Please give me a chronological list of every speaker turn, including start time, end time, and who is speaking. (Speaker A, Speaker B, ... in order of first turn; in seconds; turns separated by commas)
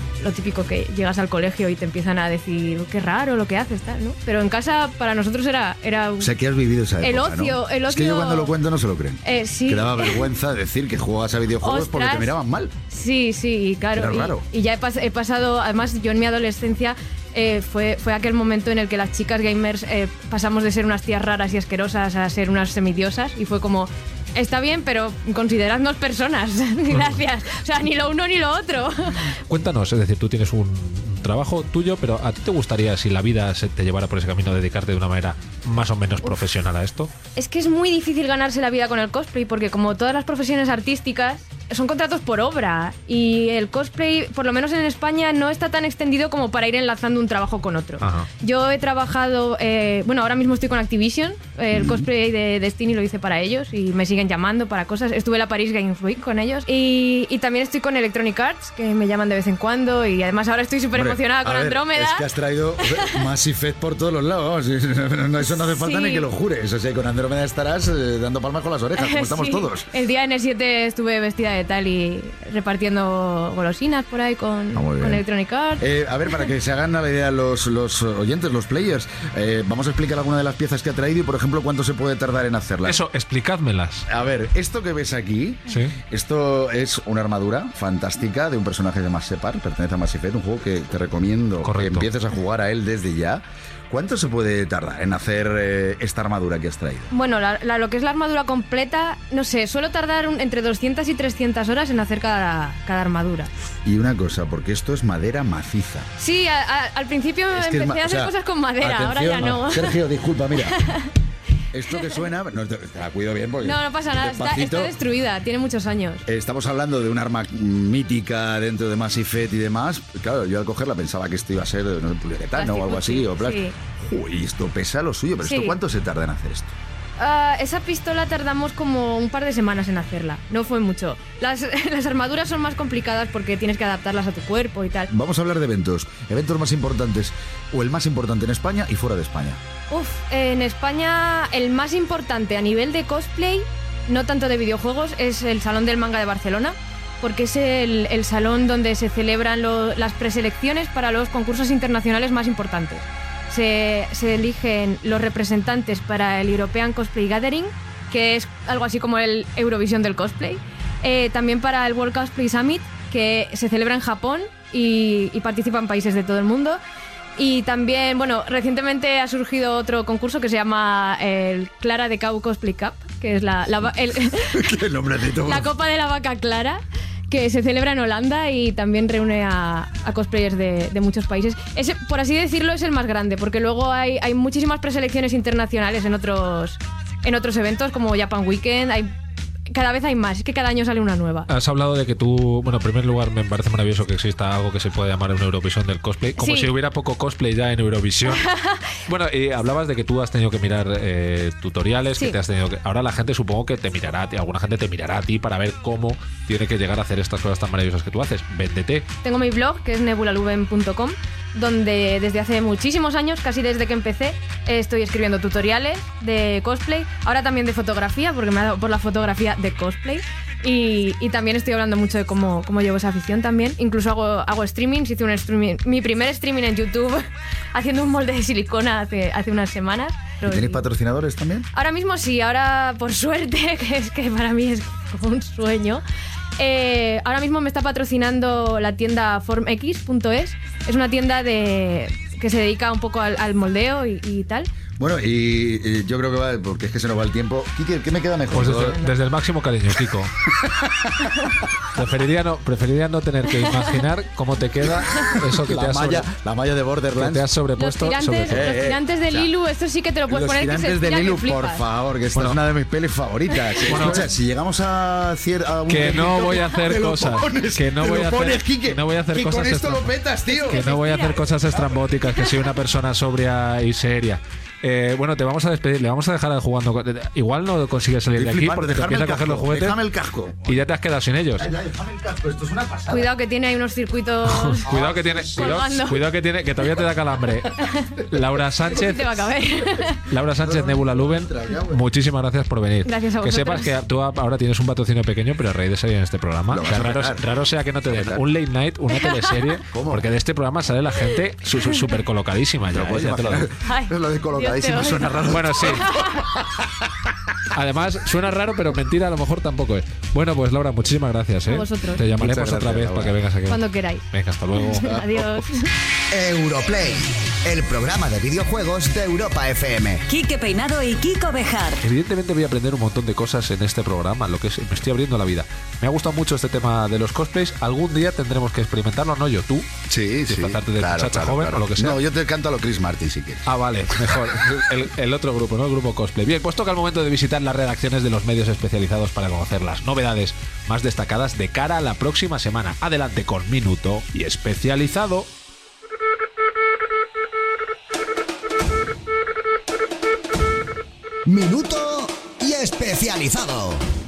Speaker A: 0.2-6.3, Speaker B: 6.2-12.7, Speaker A: 7.0-8.5, Speaker A: 9.2-10.3, Speaker A: 11.6-12.3, Speaker A: 12.9-29.3, Speaker B: 13.9-14.4, Speaker C: 29.5-37.1, Speaker A: 37.4-62.2, Speaker C: 48.0-48.3, Speaker B: 51.7-52.1, Speaker B: 60.9-69.9, Speaker A: 62.8-63.2, Speaker A: 65.4-66.2, Speaker A: 69.0-76.5, Speaker B: 74.7-75.2, Speaker B: 75.8-83.0, Speaker C: 82.8-84.0, Speaker B: 84.1-97.1, Speaker C: 85.7-85.9, Speaker C: 91.6-92.1, Speaker A: 97.1-103.5, Speaker B: 103.8-106.1, Speaker A: 106.2-110.0, Speaker B: 107.5-110.8, Speaker A: 110.6-111.1, Speaker B: 111.7-114.9, Speaker A: 113.6-116.2, Speaker B: 116.2-126.7, Speaker A: 122.5-123.7, Speaker A: 125.4-125.8, Speaker A: 127.2-135.1, Speaker B: 135.1-139.6, Speaker A: 139.9-166.8, Speaker A: 167.4-174.6, Speaker B: 174.5-175.7, Speaker A: 175.4-189.1, Speaker A: 189.7-191.5, Speaker C: 191.5-198.4, Speaker A: 196.4-196.7, Speaker A: 198.3-198.8, Speaker C: 199.1-209.1, Speaker A: 209.2-230.8, Speaker B: 230.4-231.7, Speaker A: 231.7-236.0, Speaker A: 236.6-244.7, Speaker B: 245.0-249.1, Speaker C: 248.5-250.3, Speaker B: 250.6-251.3, Speaker C: 251.9-256.3, Speaker B: 255.3-257.5, Speaker C: 257.1-258.6, Speaker A: 257.8-261.8, Speaker B: 258.5-259.5, Speaker B: 260.3-270.9, Speaker C: 263.8-264.3, Speaker C: 265.9-280.0, Speaker D: 270.5-271.4, Speaker B: 278.3-280.8, Speaker C: 280.6-281.7, Speaker B: 281.6-283.3, Speaker A: 283.1-284.9, Speaker C: 284.4-287.7, Speaker B: 284.9-285.9, Speaker A: 285.5-286.2, Speaker C: 288.3-289.2, Speaker A: 288.9-290.2, Speaker C: 290.3-303.7, Speaker B: 290.6-292.0, Speaker A: 293.0-293.9, Speaker B: 296.7-297.4, Speaker B: 298.1-298.4, Speaker A: 299.1-299.6, Speaker B: 299.9-300.3, Speaker B: 302.9-306.8, Speaker A: 303.8-306.4, Speaker C: 305.5-306.1, Speaker C: 307.7-315.1, Speaker A: 311.6-312.2, Speaker B: 312.3-313.4, Speaker A: 313.7-314.2, Speaker A: 314.7-315.9, Speaker E: 316.3-320.2, Speaker D: 320.3-322.0, Speaker C: 322.0-329.9, Speaker B: 330.1-333.7, Speaker C: 330.5-332.2, Speaker C: 333.6-345.5, Speaker E: 351.5-354.0